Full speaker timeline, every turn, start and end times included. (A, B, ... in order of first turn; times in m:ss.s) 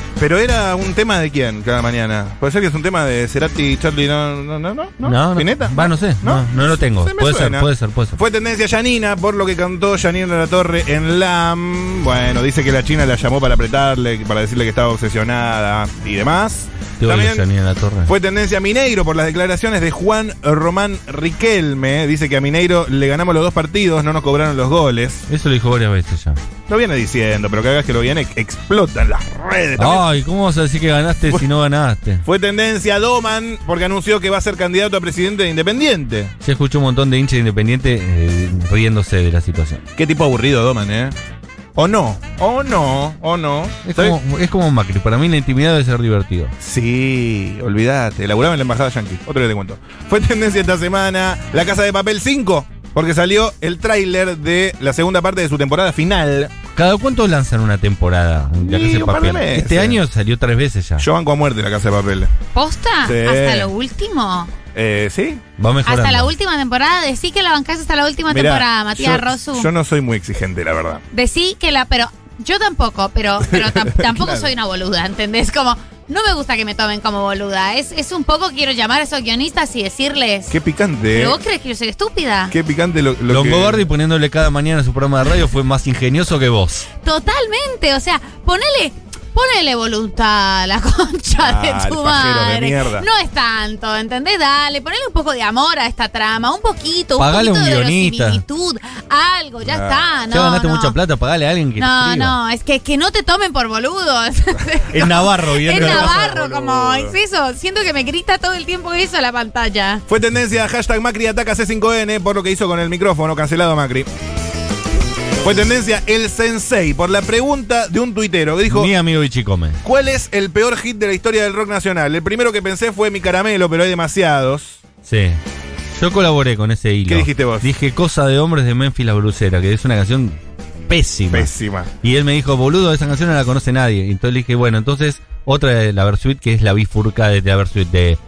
0:00.2-0:17.4 A
0:05.0-0:08.2 B
0:17.0-0:18.1 B
0:18.1-0:25.2 A
0:25.3-0:26.4 B
0:26.7-0:30.0 A
0:29.8-0:32.2 B
0:32.2-0:36.3 A
0:36.4-0:39.8 B
0:40.0-0:41.2 A
0:41.8-0:44.2 A
0:43.8-0:46.5 B
0:46.6-0:56.5 A
0:56.8-1:01.1 B
0:58.6-1:00.0 A
1:01.0-1:02.3 A
1:02.5-1:04.5 C
1:03.0-1:03.7 A
1:04.7-1:05.4 A
1:05.6-1:06.3 B
1:05.8-1:09.7 C
1:08.3-1:11.0 A
1:11.1-1:20.6 C
1:13.6-1:14.5 A
1:20.5-1:21.4 A
1:21.1-1:22.5 C
1:22.5-1:23.8 A
1:23.3-1:26.9 B
1:27.0-1:41.0 C
1:31.4-1:33.1 A
1:37.2-1:38.4 B
1:39.7-1:40.0 A
1:40.3-1:42.4 B
1:41.8-1:50.0 C
1:44.9-1:46.4 B
1:45.6-1:47.2 A
1:50.1-1:54.1 A
1:55.4-1:58.9 A
1:58.7-1:59.8 B
1:59.8-2:04.8 A
2:05.0-2:05.4 B
2:06.0-2:10.4 B
2:07.1-2:07.7 A
2:10.9-2:11.5 B
2:11.3-2:11.9 A
2:12.0-2:18.2 B